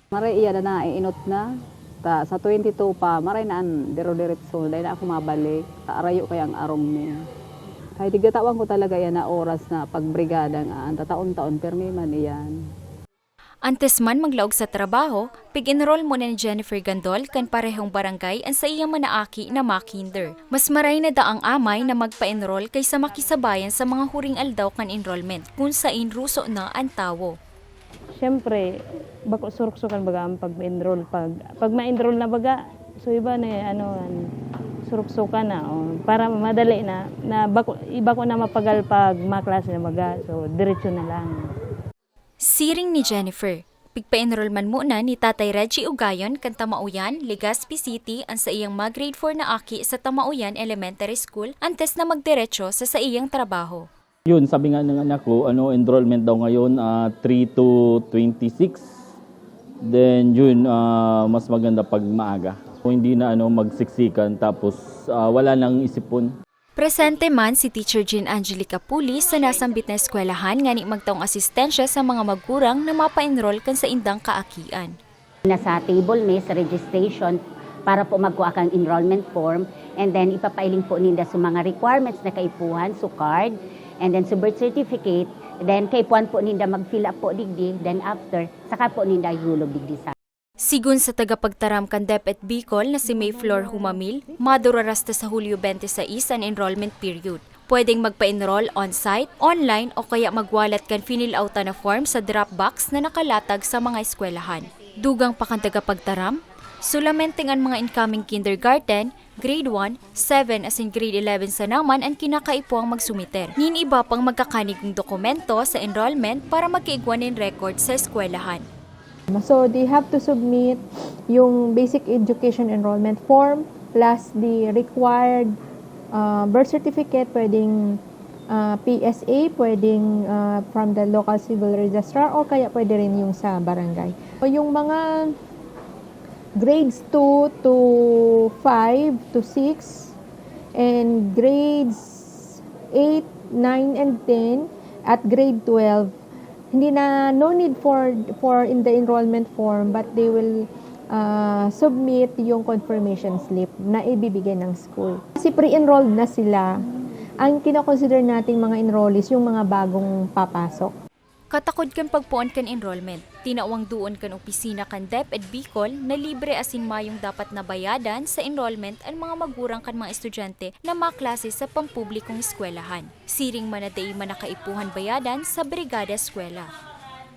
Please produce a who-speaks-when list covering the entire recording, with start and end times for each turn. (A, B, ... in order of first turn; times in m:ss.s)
0:00.1-0:01.4 A
0:02.0-0:07.1 A
0:08.0-0:12.5 A
0:13.6-0:27.4 B
0:28.2-0:28.6 C
0:29.3-0:34.2 C
0:34.9-0:41.4 C
0:42.4-0:53.9 B
0:54.3-0:58.8 D
0:59.8-1:06.3 D
1:06.8-1:14.9 B
1:15.5-1:30.1 E
1:30.6-1:58.6 B
1:33.1-1:34.4 F
1:59.3-2:05.5 F
2:06.1-2:08.0 F
2:08.5-2:15.3 F
2:16.6-2:20.1 F
2:20.8-2:26.1 F
2:26.7-2:36.7 F
2:37.4-2:40.9 F
2:41.5-2:56.7 B